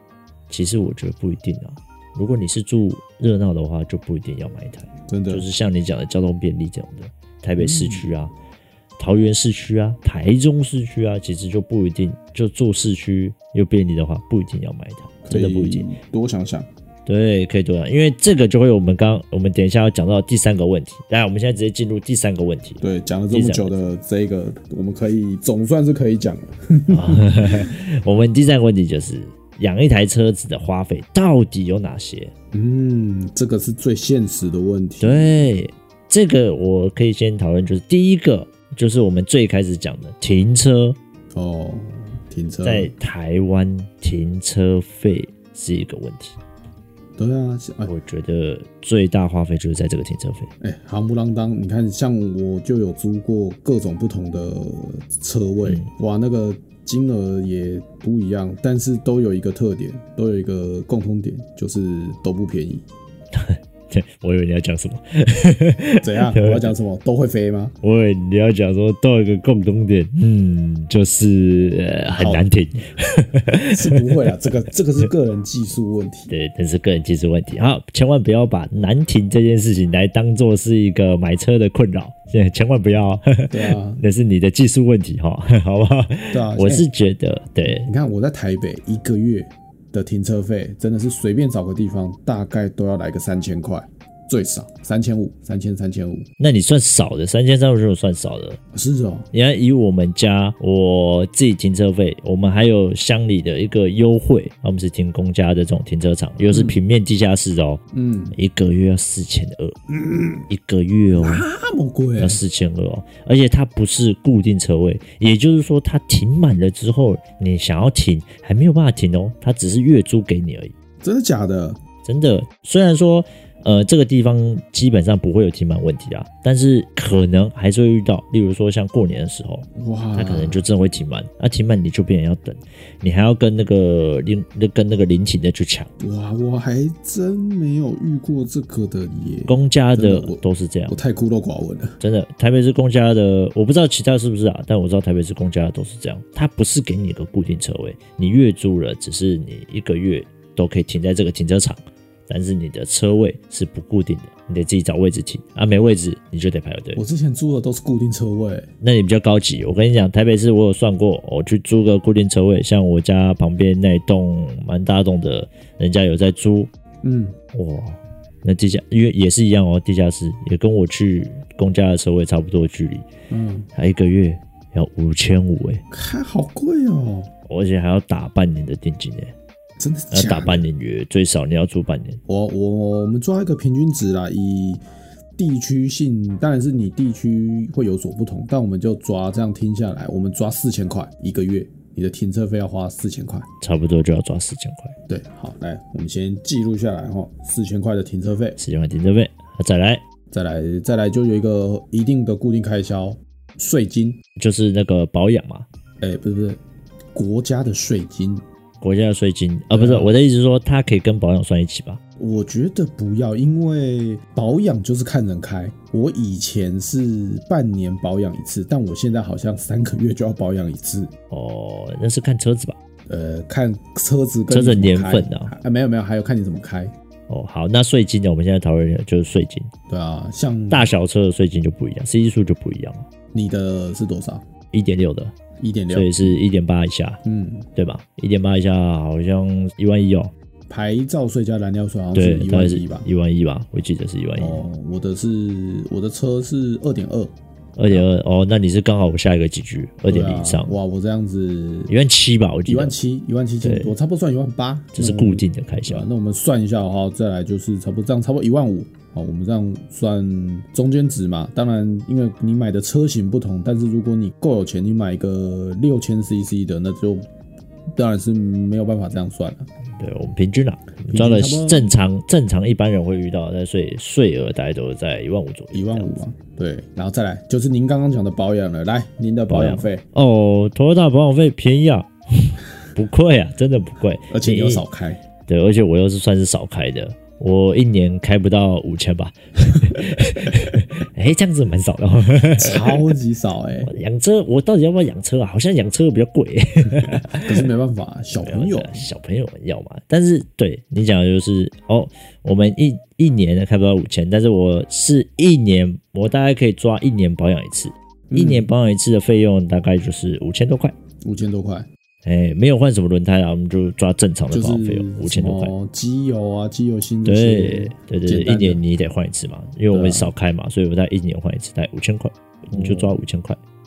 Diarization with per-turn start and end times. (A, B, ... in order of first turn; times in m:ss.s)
0:00.5-0:08.3 A
0:05.1-0:05.4 B
0:07.6-0:08.1 B
0:09.0-0:15.9 A
0:15.2-0:16.7 B
0:17.0-0:23.8 A
0:22.8-0:27.7 B
0:26.9-0:32.3 A
0:32.5-0:35.4 B
0:35.0-0:41.0 A
0:41.3-0:42.9 B
0:42.6-0:46.4 A
0:47.2-0:47.9 B
0:47.8-0:50.5 A
0:50.6-1:02.8 B
0:55.6-0:55.9 A
1:03.3-1:06.7 A
1:06.0-1:07.7 B
1:07.8-1:14.5 A
1:12.1-1:12.5 B
1:13.6-1:16.3 B
1:16.3-1:27.9 A
1:23.5-1:24.0 B
1:26.3-1:26.9 B
1:27.6-1:36.2 B
1:36.4-1:38.6 A
1:38.7-1:39.3 B
1:39.3-1:47.8 A
1:46.4-1:46.8 B
1:47.9-1:48.4 B
1:48.3-1:49.8 A
1:49.9-1:50.4 B
1:50.5-1:51.4 A
1:51.1-1:52.4 B
1:52.2-2:00.7 A
2:01.0-2:01.8 B
2:02.0-2:15.9 A
2:09.7-2:10.6 B
2:16.0-2:22.0 B
2:19.4-2:21.0 A
2:22.0-2:37.0 A
2:36.9-2:38.7 B
2:38.8-2:46.7 A
2:47.0-2:47.3 B
2:47.5-2:53.1 A
2:53.3-2:53.7 B
2:53.7-2:55.8 A
2:55.9-2:57.3 B
2:57.5-2:59.3 A
2:59.8-3:00.6 B
3:00.1-3:02.2 A
3:02.3-3:04.8 B
3:05.4-3:13.5 B
3:13.6-3:14.9 A
3:15.1-3:18.6 B
3:18.6-3:20.0 A
3:20.3-3:24.2 B
3:24.4-3:25.6 A
3:26.0-3:26.6 B
3:27.1-3:28.4 B
3:28.8-3:32.0 A
3:29.7-3:30.1 B
3:32.2-3:41.1 B
3:41.3-3:42.8 A
3:43.1-3:46.9 B
3:44.5-3:45.5 A
3:47.3-3:49.7 A
3:49.9-3:50.9 B
3:50.7-3:53.1 A
3:53.3-3:54.4 B
3:54.7-3:55.3 A
3:55.6-3:56.4 B
3:55.9-3:57.2 A
3:57.2-3:57.7 B
3:57.7-4:00.3 A
4:00.7-4:03.1 B
4:02.1-4:04.6 A
4:04.4-4:07.3 B
4:07.8-4:10.8 A
4:10.1-4:11.9 B
4:11.9-4:12.9 A
4:12.7-4:27.3 B
4:13.6-4:13.9 A
4:14.9-4:16.1 A
4:27.9-4:29.7 B
4:30.0-4:36.2 A
4:31.1-4:31.9 B
4:35.7-4:40.0 B
4:39.5-4:44.8 A
4:44.3-4:45.2 B
4:45.5-4:53.0 A
4:52.6-4:53.9 B
4:53.9-4:57.6 A
4:57.0-4:59.1 B
4:58.3-5:10.9 A
5:08.3-5:08.7 B
5:11.2-5:11.9 B
5:12.2-5:15.7 A
5:14.5-5:18.8 B
5:17.2-5:23.6 A
5:19.9-5:20.3 B
5:22.7-5:23.2 B